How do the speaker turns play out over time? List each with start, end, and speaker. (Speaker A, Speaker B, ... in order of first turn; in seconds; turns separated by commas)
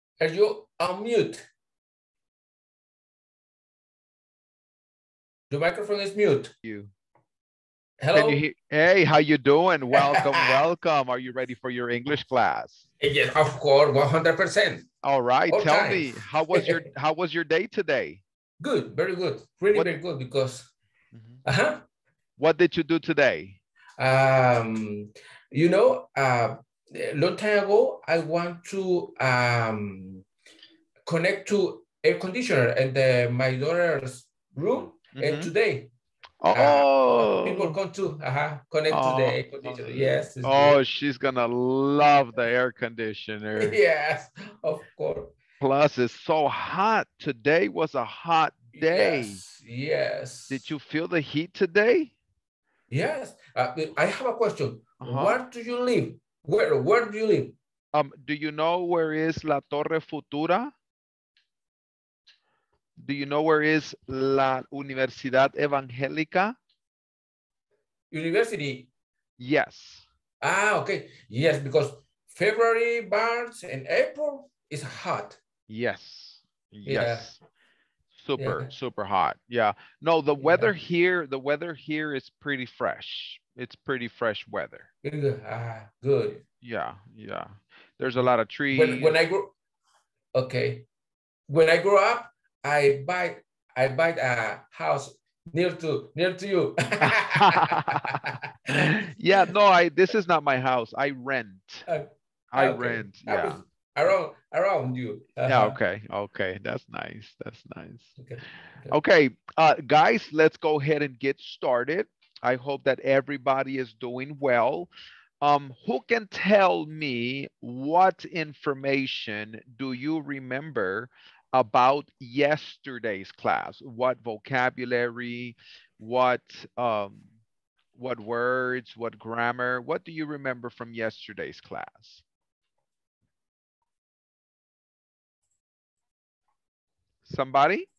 Speaker A: 0.2-1.4, Speaker A: 5.5-6.5, Speaker B: 6.6-6.9, Speaker A: 8.0-8.4, Speaker B: 8.2-12.9, Speaker A: 10.0-10.6, Speaker A: 13.0-14.9, Speaker B: 15.0-18.2, Speaker A: 15.5-16.8, Speaker A: 18.6-20.7, Speaker B: 21.1-21.4, Speaker A: 21.4-21.8, Speaker B: 22.4-23.6, Speaker A: 24.0-30.2, Speaker A: 31.1-35.9, Speaker B: 35.1-35.5, Speaker B: 36.4-37.8, Speaker A: 36.5-40.8, Speaker B: 38.9-43.8, Speaker A: 43.6-45.3, Speaker B: 45.6-49.4, Speaker A: 48.7-50.7, Speaker B: 50.5-52.1, Speaker A: 52.9-57.6, Speaker B: 55.0-55.4, Speaker B: 57.9-60.7, Speaker B: 63.0-66.6, Speaker A: 68.1-68.9, Speaker B: 69.4-70.0, Speaker A: 70.4-75.4, Speaker B: 75.7-77.4, Speaker A: 76.8-77.3, Speaker B: 78.2-84.9, Speaker A: 78.4-78.7, Speaker A: 80.4-80.7, Speaker A: 85.0-86.4, Speaker B: 86.6-89.2, Speaker A: 88.7-89.5, Speaker A: 90.3-90.8, Speaker A: 91.5-99.3, Speaker B: 97.0-101.9, Speaker A: 101.9-105.8, Speaker B: 102.5-103.6, Speaker B: 105.5-108.2, Speaker A: 108.2-108.9, Speaker B: 108.9-114.9, Speaker B: 115.4-127.3, Speaker B: 128.0-132.2, Speaker B: 137.3-137.9